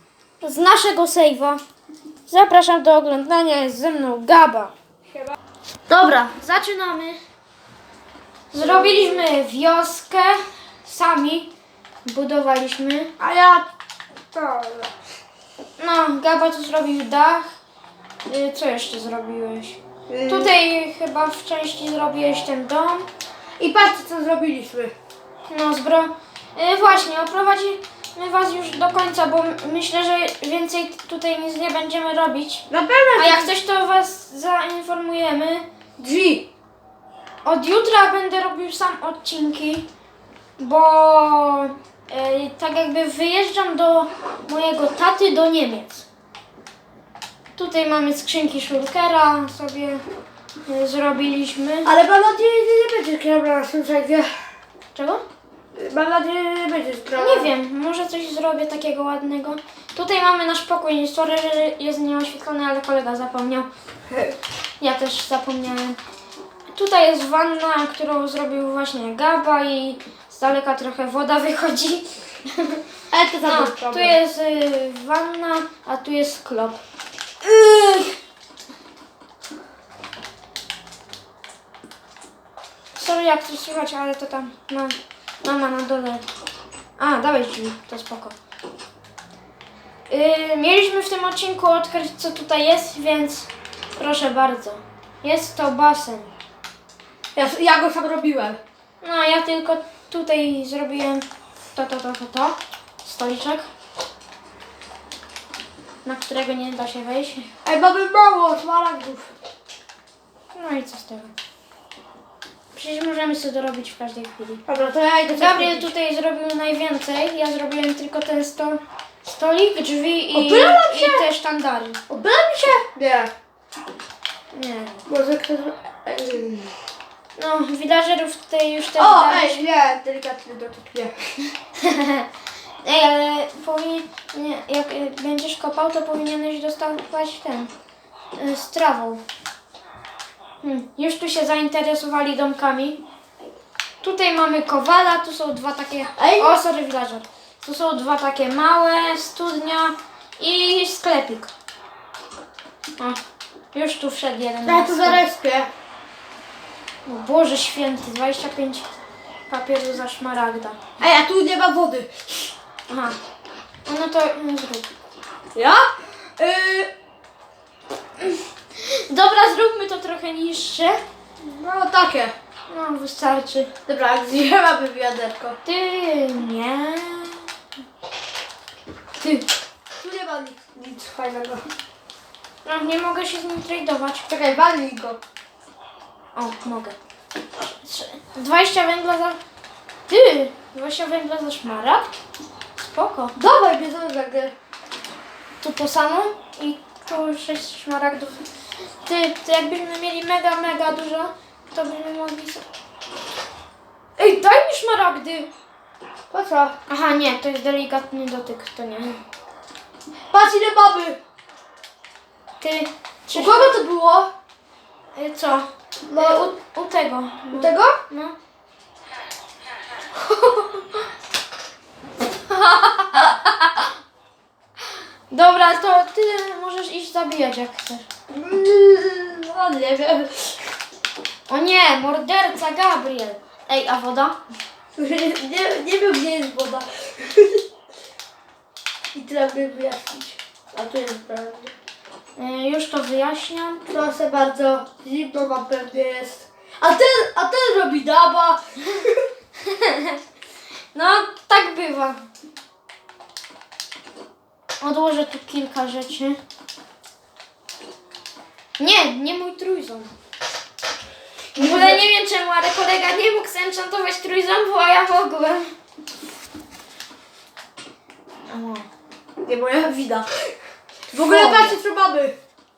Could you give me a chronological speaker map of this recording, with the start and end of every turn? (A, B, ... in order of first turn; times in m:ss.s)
0:00.4-0:01.6 A
0:02.3-0:04.7 A
0:05.9-0:07.2 A
0:08.5-0:11.5 A
0:08.6-0:09.3 B
0:12.0-0:13.1 A
0:13.2-0:13.7 B
0:14.3-0:14.9 B
0:15.8-0:17.5 A
0:18.2-0:23.1 A
0:20.1-0:20.5 B
0:23.6-0:24.9 B
0:25.5-0:32.6 A
0:32.7-0:33.5 B
0:33.2-0:35.6 A
0:36.0-0:36.5 B
0:37.4-0:39.9 A
0:40.6-0:46.0 A
0:47.6-0:50.0 A
0:50.7-0:51.9 A
0:51.8-0:54.3 B
0:54.9-0:55.2 A
0:55.7-0:57.5 B
0:57.2-1:03.7 A
1:04.1-1:04.4 B
1:04.8-1:06.0 A
1:06.7-1:12.8 A
1:13.1-1:14.2 B
1:13.4-1:16.8 A
1:17.4-1:18.1 B
1:23.0-1:26.2 A
1:27.0-1:28.4 A
1:30.1-1:36.3 A
1:37.3-1:38.6 B
1:39.0-1:43.7 A
1:46.0-1:47.5 A
1:47.6-1:49.3 B
1:50.5-1:51.3 A
1:52.7-1:54.6 A
1:54.7-1:55.9 B
1:55.4-2:02.0 A
2:00.3-2:01.3 B
2:02.1-2:03.3 B
2:04.5-2:05.0 A
2:05.0-2:06.7 B
2:07.4-2:09.6 A
2:09.0-2:11.5 B
2:11.8-2:12.3 A
2:12.8-2:17.7 A
2:18.3-2:19.2 A
2:20.6-2:23.0 A
2:24.0-2:31.5 A
2:26.2-2:26.6 B
2:33.7-2:35.2 A
2:34.6-2:35.7 B
2:37.0-2:38.9 A
2:39.5-2:40.8 A
2:41.0-2:42.3 B
2:42.9-2:43.2 A
2:43.8-2:44.9 A
2:45.5-2:46.9 B
2:48.8-2:51.0 A
2:51.4-2:52.3 B
2:52.7-2:53.7 A
2:53.9-2:55.6 B
2:55.6-2:57.5 A
2:59.2-2:59.5 A
2:59.9-3:01.6 B
3:02.6-3:04.3 A
3:04.3-3:05.2 B
3:06.3-3:07.0 A
3:07.6-3:09.4 A
3:10.1-3:12.1 A
3:12.8-3:13.3 A
3:13.4-3:14.5 B
3:15.6-3:18.4 A
3:19.0-3:22.6 A
3:24.2-3:25.5 A
3:26.3-3:26.8 B
3:26.9-3:29.2 A
3:30.3-3:31.2 B
3:32.6-3:33.8 A
3:33.3-3:34.3 B
3:35.1-3:38.4 A
3:36.0-3:36.5 B
3:37.5-3:38.0 B
3:40.2-3:41.0 A
3:42.6-3:43.5 A
3:45.3-3:48.1 A
3:48.3-3:50.6 B
3:51.5-3:54.4 A
3:54.9-3:57.6 B
3:59.1-4:01.7 B
4:02.4-4:03.8 A
4:03.8-4:09.2 B
4:09.6-4:10.2 A
4:10.9-4:12.2 A
4:14.8-4:16.4 A
4:18.8-4:20.1 A
4:21.5-4:25.7 A
4:21.6-4:22.0 B
4:28.5-4:28.9 A
4:29.4-4:30.5 B
4:31.1-4:31.8 A
4:31.1-4:32.4 B